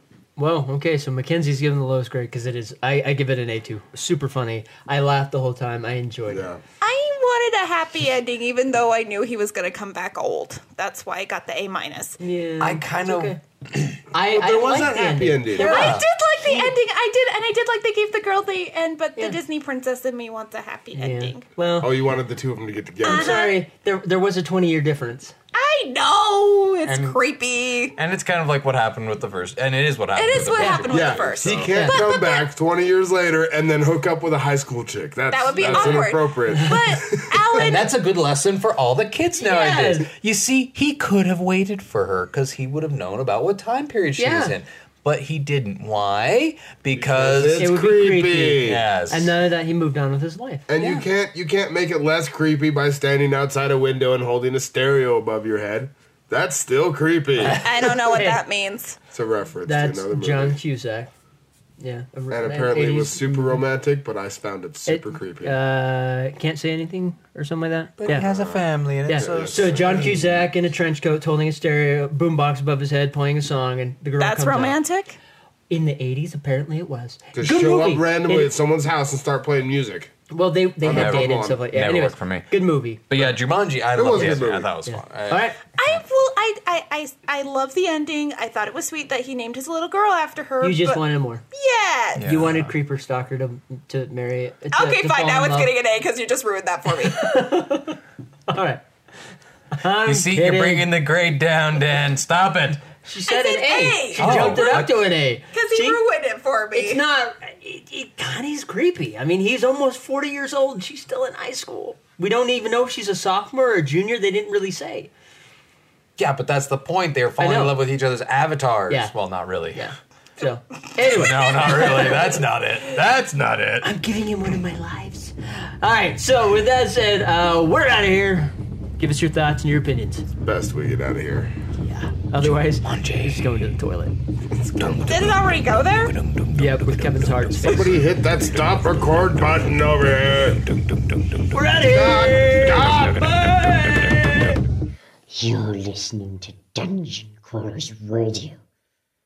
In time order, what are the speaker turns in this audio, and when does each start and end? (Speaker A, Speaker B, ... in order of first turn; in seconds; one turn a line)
Speaker A: 0.4-6.5
Speaker B: 6.3-6.6
Speaker C: 6.8-12.2
Speaker A: 12.2-13.4
Speaker D: 12.6-14.0
Speaker A: 14.1-16.8
Speaker B: 14.3-15.8
Speaker D: 14.8-15.1
Speaker C: 15.5-21.4
Speaker D: 15.7-16.0
Speaker A: 21.0-21.9
Speaker B: 21.8-23.4
Speaker C: 23.0-23.6
Speaker A: 23.0-25.3
Speaker C: 25.5-27.9
Speaker D: 26.8-27.2
Speaker D: 27.9-31.7
Speaker C: 30.1-32.5
Speaker A: 30.6-30.9
Speaker B: 30.9-37.8
Speaker A: 31.7-32.0
Speaker C: 35.3-37.9
Speaker D: 35.6-36.0
Speaker D: 37.5-47.7
Speaker A: 39.4-40.1
Speaker A: 44.2-44.6
Speaker B: 46.9-48.8
Speaker A: 47.6-51.0
Speaker D: 48.6-49.3
Speaker B: 50.7-57.6
Speaker A: 57.4-58.4
Speaker C: 57.5-59.0
Speaker B: 59.1-60.6
Speaker A: 59.6-61.1
Speaker A: 61.8-63.6
Speaker B: 62.3-65.6
Speaker A: 64.8-68.3
Speaker D: 68.0-70.2
Speaker B: 68.1-70.5
Speaker A: 69.0-74.8
Speaker C: 74.2-75.2
Speaker A: 75.7-78.5
Speaker B: 77.3-80.1
Speaker A: 80.3-83.0
Speaker B: 80.8-81.6
Speaker D: 80.9-86.0
Speaker B: 83.9-84.7
Speaker A: 84.1-85.6
Speaker C: 85.8-91.0
Speaker A: 90.6-91.4
Speaker C: 91.5-92.2
Speaker D: 92.2-92.7
Speaker A: 92.2-95.7
Speaker C: 94.7-97.2
Speaker A: 97.0-98.8
Speaker A: 99.7-100.9
Speaker D: 100.0-102.8
Speaker A: 103.0-106.0
Speaker C: 103.3-104.8
Speaker D: 104.2-104.9
Speaker C: 105.5-107.0
Speaker A: 106.7-115.1
Speaker D: 116.2-119.9
Speaker A: 117.4-117.8
Speaker A: 118.9-119.2
Speaker A: 119.7-122.4
Speaker D: 121.0-123.9
Speaker A: 123.8-130.3
Speaker B: 130.4-131.5
Speaker A: 131.9-134.1
Speaker D: 132.4-133.4
Speaker B: 134.5-135.0
Speaker D: 134.8-137.8
Speaker C: 135.1-136.2
Speaker A: 136.5-138.0
Speaker B: 137.7-140.6
Speaker D: 140.9-141.5
Speaker A: 141.5-144.6
Speaker B: 141.9-143.1
Speaker E: 145.3-148.6